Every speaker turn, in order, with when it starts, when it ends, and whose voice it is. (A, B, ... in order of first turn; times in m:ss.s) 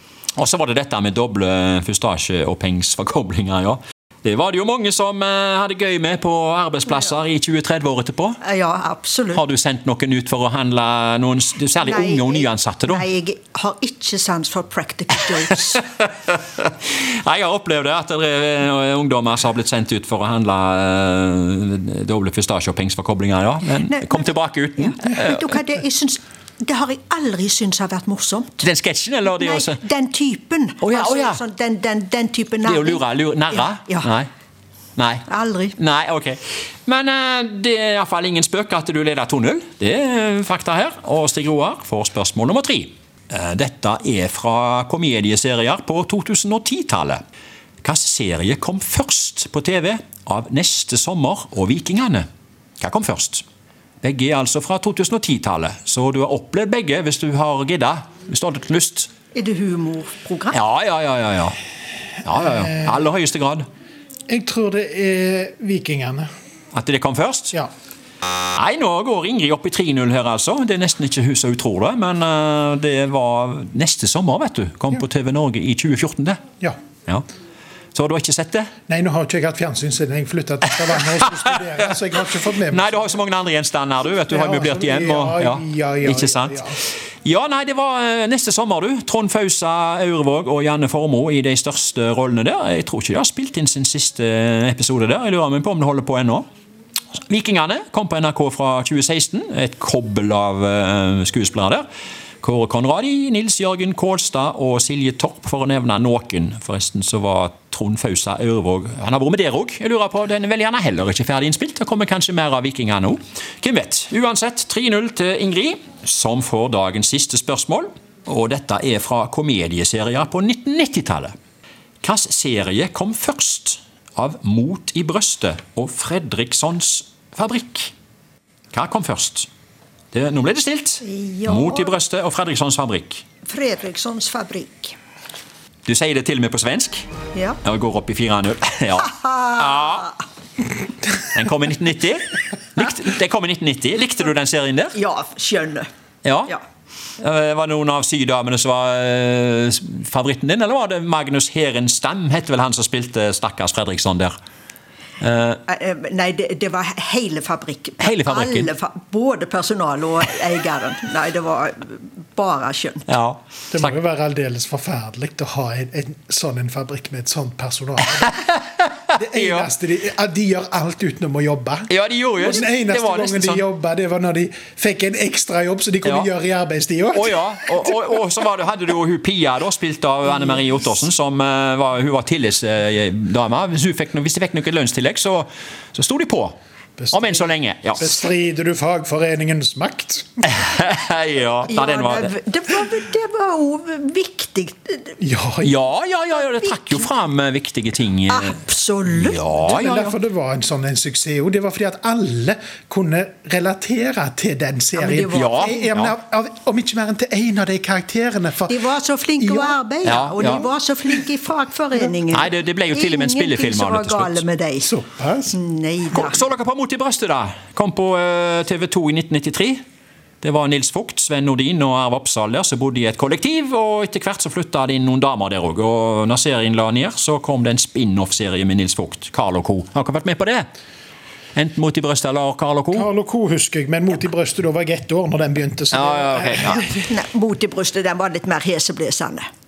0:00.4-0:08.4 A
0:08.4-0:09.4 B
0:09.3-0:13.1 A
0:11.8-0:15.9 B
0:16.0-0:25.5 A
0:23.9-0:28.7 B
0:28.6-0:29.8 A
0:29.3-0:34.1 B
0:30.8-0:31.4 A
0:32.6-0:34.3 A
0:35.0-0:47.2 A
0:35.3-0:35.8 B
0:47.8-0:52.3 A
0:52.8-0:53.4 A
0:54.0-0:59.1 A
0:59.3-1:00.6 B
1:00.5-1:01.6 A
1:02.2-1:03.7 A
1:04.3-1:06.3 C
1:06.7-1:07.6 A
1:08.6-1:16.4 A
1:17.9-1:18.7 A
1:18.9-1:23.2 C
1:21.3-1:21.9 A
1:22.7-1:26.6 A
1:24.3-1:26.8 C
1:27.2-1:36.5 A
1:37.3-1:41.8 A
1:42.4-2:01.3 A
2:02.0-2:07.9 A
2:08.7-2:09.5 A
2:10.1-2:13.2 A
2:11.0-2:12.0 B
2:13.4-2:15.0 B
2:15.9-2:17.1 A
2:17.3-2:17.6 B
2:17.6-2:20.2 A
2:19.1-2:20.0 B
2:21.3-2:25.0 A
2:25.0-2:25.9 B
2:26.2-2:26.5 A
2:27.2-2:34.4 A
2:35.2-2:35.6 A
2:35.7-2:43.1 B
2:38.0-2:38.7 A
2:43.1-2:44.0 A
2:43.7-2:48.4 C
2:48.2-2:49.7 A
2:49.1-2:51.9 C
2:51.9-2:53.7 A
2:52.4-2:58.0 C
2:56.0-2:56.3 A
2:57.1-3:06.6 A
3:07.0-3:10.3 C
3:07.1-3:08.1 A
3:10.5-3:12.3 A
3:11.7-3:15.2 B
3:15.2-3:15.7 C
3:15.6-3:18.6 A
3:18.3-3:19.4 B
3:19.1-3:20.2 A
3:19.6-3:28.8 C
3:25.0-3:25.8 B
3:25.3-3:26.1 A
3:28.7-3:34.9 B
3:29.4-3:29.8 C
3:30.0-3:30.7 A
3:30.4-3:30.7 C
3:32.3-3:34.4 A
3:34.8-3:35.6 C
3:35.5-3:36.4 B
3:36.1-3:39.8 A
3:40.4-3:50.7 A
3:51.6-3:53.1 A
3:52.9-3:57.1 C
3:55.9-3:56.9 A
3:57.1-3:59.5 B